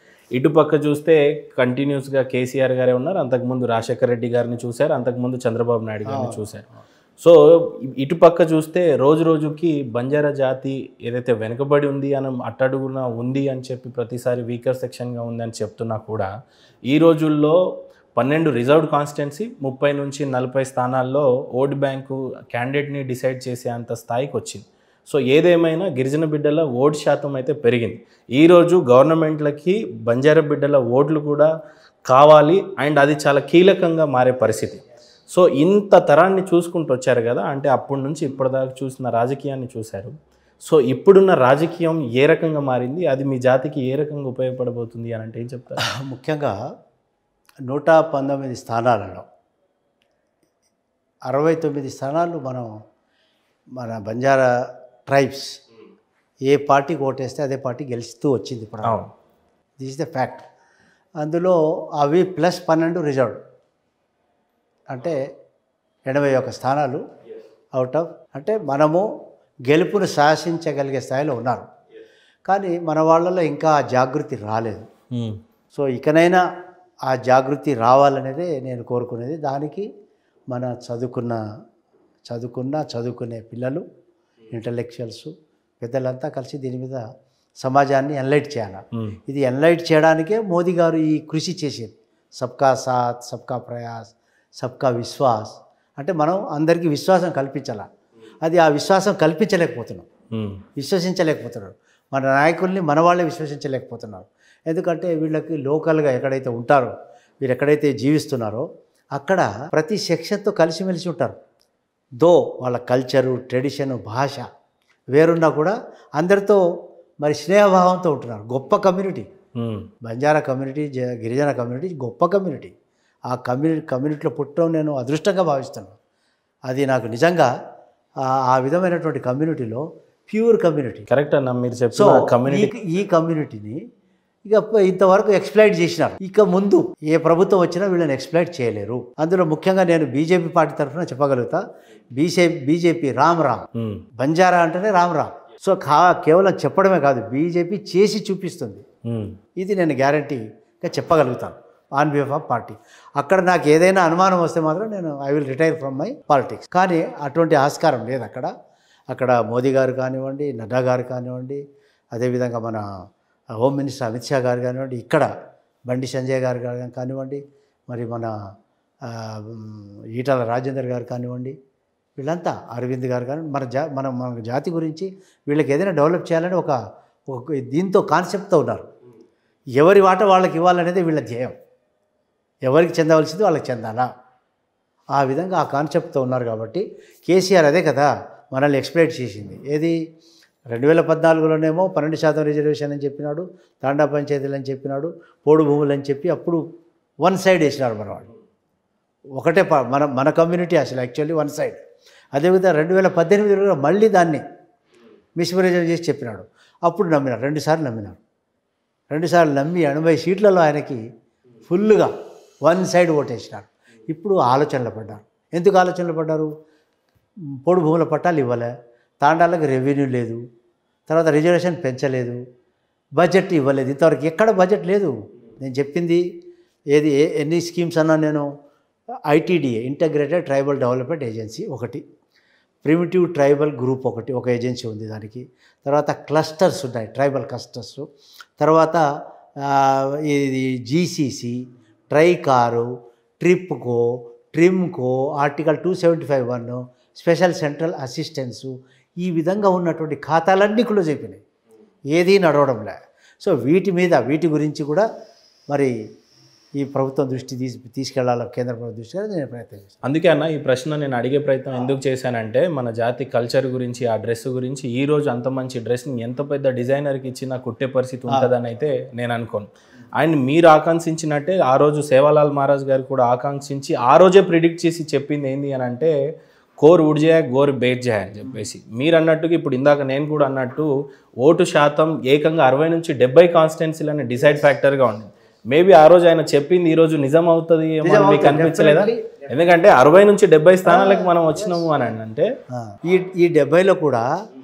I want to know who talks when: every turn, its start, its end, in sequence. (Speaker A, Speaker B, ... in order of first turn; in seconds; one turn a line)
Speaker A: 0.3-6.7
Speaker B: 6.1-6.5
Speaker A: 7.2-16.3
Speaker A: 16.9-17.6
Speaker A: 18.2-31.5
Speaker A: 32.1-45.8
Speaker B: 45.9-46.5
Speaker B: 47.7-49.3
Speaker B: 51.3-52.7
Speaker B: 53.8-54.5
Speaker B: 55.1-55.5
Speaker B: 56.5-59.0
Speaker A: 58.8-59.1
Speaker B: 59.8-60.4
Speaker B: 61.2-63.4
Speaker B: 64.9-65.2
Speaker B: 66.1-67.0
Speaker B: 67.7-69.0
Speaker B: 69.7-71.7
Speaker B: 72.5-74.9
Speaker A: 75.1-75.4
Speaker B: 75.7-76.4
Speaker B: 77.1-79.9
Speaker B: 80.5-81.4
Speaker B: 82.3-83.8
Speaker B: 84.5-87.0
Speaker B: 87.6-97.9
Speaker B: 98.5-100.1
Speaker A: 100.3-100.6
Speaker B: 100.8-111.4
Speaker B: 112.2-114.5
Speaker B: 115.1-116.6
Speaker B: 117.2-119.3
Speaker A: 119.6-119.9
Speaker B: 120.0-122.7
Speaker B: 123.3-126.0
Speaker B: 126.7-127.5
Speaker B: 128.2-131.1
Speaker A: 131.1-132.7
Speaker B: 131.9-133.8
Speaker B: 134.5-141.6
Speaker B: 142.2-143.7
Speaker A: 143.8-144.1
Speaker B: 144.2-148.8
Speaker A: 149.1-149.4
Speaker B: 149.6-158.5
Speaker B: 159.1-161.6
Speaker B: 162.1-162.8
Speaker B: 163.6-165.3
Speaker B: 165.9-168.3
Speaker B: 169.1-171.6
Speaker B: 172.2-176.8
Speaker B: 177.3-178.9
Speaker B: 179.8-181.6
Speaker B: 182.7-184.1
Speaker B: 185.1-190.0
Speaker B: 190.7-196.6
Speaker B: 197.2-198.3
Speaker B: 199.4-201.8
Speaker B: 202.3-204.4
Speaker B: 205.4-208.2
Speaker B: 209.1-211.0
Speaker B: 211.7-212.1
Speaker B: 212.6-216.5
Speaker B: 217.6-218.7
Speaker B: 219.2-220.4
Speaker B: 221.1-222.4
Speaker B: 223.2-226.2
Speaker B: 226.9-228.5
Speaker B: 229.3-232.0
Speaker B: 232.8-238.1
Speaker B: 238.6-239.0
Speaker B: 239.6-241.6
Speaker B: 242.1-242.9
Speaker B: 243.4-251.4
Speaker B: 252.1-255.1
Speaker B: 256.8-260.0
Speaker A: 260.0-276.1
Speaker A: 276.8-280.9
Speaker A: 281.4-292.5
Speaker B: 288.0-289.3
Speaker B: 290.9-291.8
Speaker B: 292.7-294.2